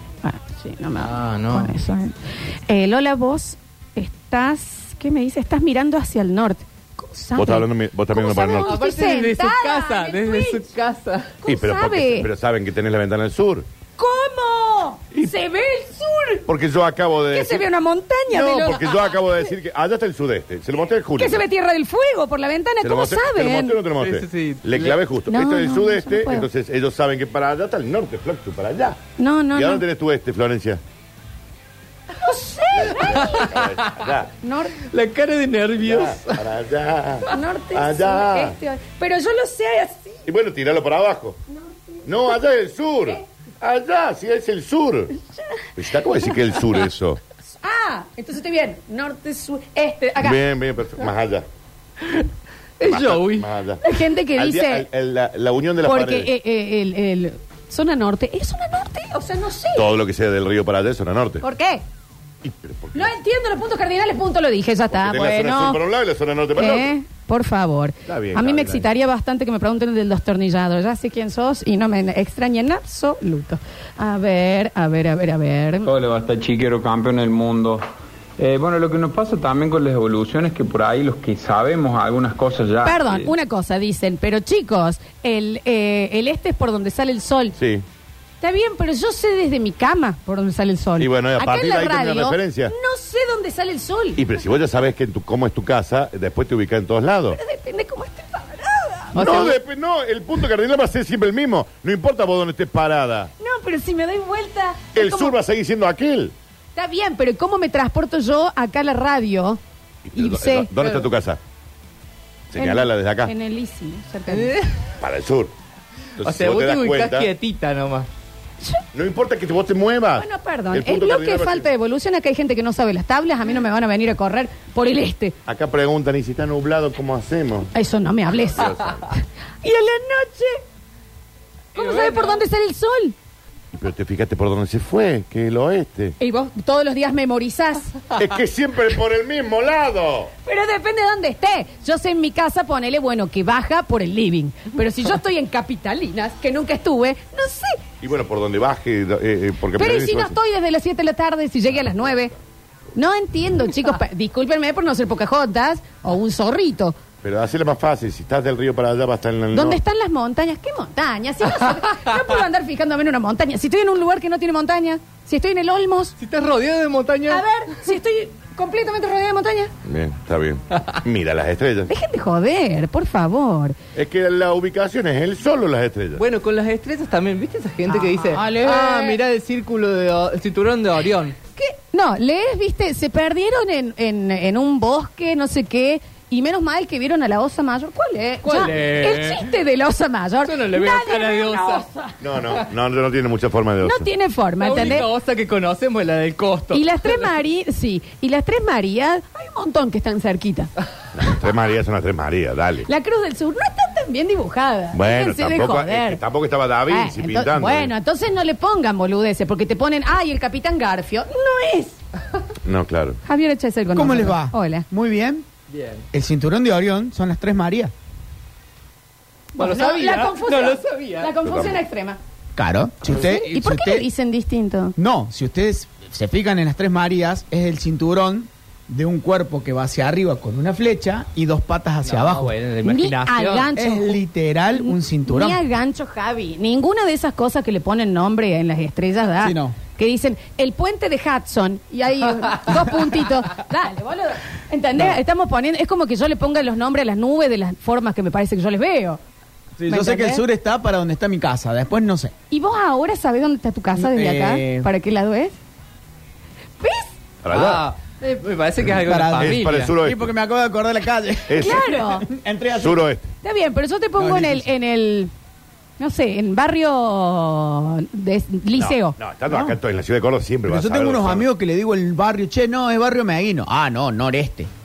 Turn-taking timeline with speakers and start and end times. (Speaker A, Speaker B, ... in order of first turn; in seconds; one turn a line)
Speaker A: 0.2-2.1
Speaker B: 1.0-1.7
Speaker A: 2.7-10.7
Speaker C: 7.3-8.7
Speaker B: 8.6-11.4
Speaker A: 11.4-12.3
Speaker C: 11.4-13.7
Speaker A: 14.0-16.4
Speaker C: 16.5-17.7
Speaker A: 17.3-18.9
Speaker C: 18.3-21.4
Speaker A: 21.2-23.8
Speaker C: 22.8-29.0
Speaker B: 24.0-25.0
Speaker A: 25.3-26.5
Speaker A: 29.2-29.8
Speaker C: 29.5-30.8
Speaker A: 32.2-33.5
Speaker C: 32.8-34.3
Speaker B: 33.1-34.0
Speaker A: 34.4-34.8
Speaker B: 34.9-36.4
Speaker C: 35.8-38.6
Speaker A: 37.3-40.2
Speaker C: 40.3-41.4
Speaker A: 41.5-42.1
Speaker C: 42.0-45.1
Speaker C: 45.8-47.2
Speaker A: 47.6-50.4
Speaker C: 50.2-51.5
Speaker B: 52.8-53.5
Speaker C: 52.8-53.8
Speaker A: 53.8-54.9
Speaker C: 54.3-56.3
Speaker A: 55.8-59.9
Speaker C: 59.7-61.4
Speaker A: 61.4-61.8
Speaker C: 62.4-63.1
Speaker A: 62.9-65.8
Speaker C: 64.9-66.9
Speaker A: 66.5-75.9
Speaker C: 68.0-68.9
Speaker D: 75.8-77.8
Speaker D: 78.4-83.3
Speaker A: 82.8-87.5
Speaker C: 87.6-87.8
Speaker A: 88.4-94.2
Speaker C: 91.0-92.7
Speaker C: 94.2-97.4
Speaker A: 97.3-99.6
Speaker C: 99.1-103.3
Speaker A: 103.4-105.3
Speaker C: 104.9-106.3
Speaker A: 106.7-109.6
Speaker C: 110.0-111.4
Speaker A: 110.2-110.7
Speaker C: 112.5-113.3
Speaker A: 112.5-114.5
Speaker B: 114.3-114.7
Speaker C: 115.0-115.5
Speaker C: 116.2-117.3
Speaker B: 116.2-118.1
Speaker C: 118.9-121.7
Speaker A: 120.2-125.3
Speaker C: 125.5-127.7
Speaker A: 127.7-128.7
Speaker C: 128.3-129.1
Speaker A: 129.6-130.6
Speaker B: 131.7-132.4
Speaker A: 131.7-133.1
Speaker C: 133.7-136.2
Speaker A: 136.2-138.0
Speaker C: 138.1-140.3
Speaker A: 140.4-147.8
Speaker C: 148.0-150.4
Speaker A: 149.8-152.3
Speaker A: 152.9-156.9
Speaker C: 157.2-159.8
Speaker A: 159.5-166.1
Speaker B: 166.2-167.4
Speaker A: 167.3-169.7
Speaker C: 169.8-171.9
Speaker A: 171.9-173.8
Speaker C: 173.9-176.2
Speaker B: 176.2-181.3
Speaker A: 177.9-179.2
Speaker A: 181.6-192.2
Speaker B: 188.4-189.5
Speaker B: 190.4-191.8
Speaker C: 192.2-194.1
Speaker A: 193.8-195.1
Speaker B: 194.6-197.3
Speaker A: 196.7-200.7
Speaker C: 201.1-202.9
Speaker A: 202.8-206.2
Speaker C: 204.9-207.9
Speaker A: 206.9-212.0
Speaker C: 212.6-213.2
Speaker A: 213.2-214.8
Speaker E: 213.9-215.4
Speaker B: 215.7-216.0
Speaker E: 216.1-217.9
Speaker A: 219.5-222.2
Speaker B: 219.6-221.3
Speaker C: 221.4-221.8
Speaker E: 222.6-224.1
Speaker A: 223.1-224.9
Speaker E: 225.0-232.5
Speaker B: 232.0-233.7
Speaker A: 232.8-249.2
Speaker E: 233.7-235.6
Speaker E: 239.4-239.8
Speaker E: 249.8-252.3
Speaker A: 249.9-250.4
Speaker A: 252.5-255.5
Speaker E: 253.9-254.9
Speaker A: 256.8-257.1
Speaker C: 257.4-257.9
Speaker B: 257.5-259.9
Speaker E: 258.9-263.0
Speaker C: 259.4-260.3
Speaker C: 261.5-261.9
Speaker A: 261.6-262.3
Speaker C: 262.8-263.3
Speaker A: 263.4-265.3
Speaker E: 264.2-264.7
Speaker A: 266.0-269.1
Speaker C: 268.7-271.5
Speaker E: 269.5-269.8
Speaker E: 270.7-274.7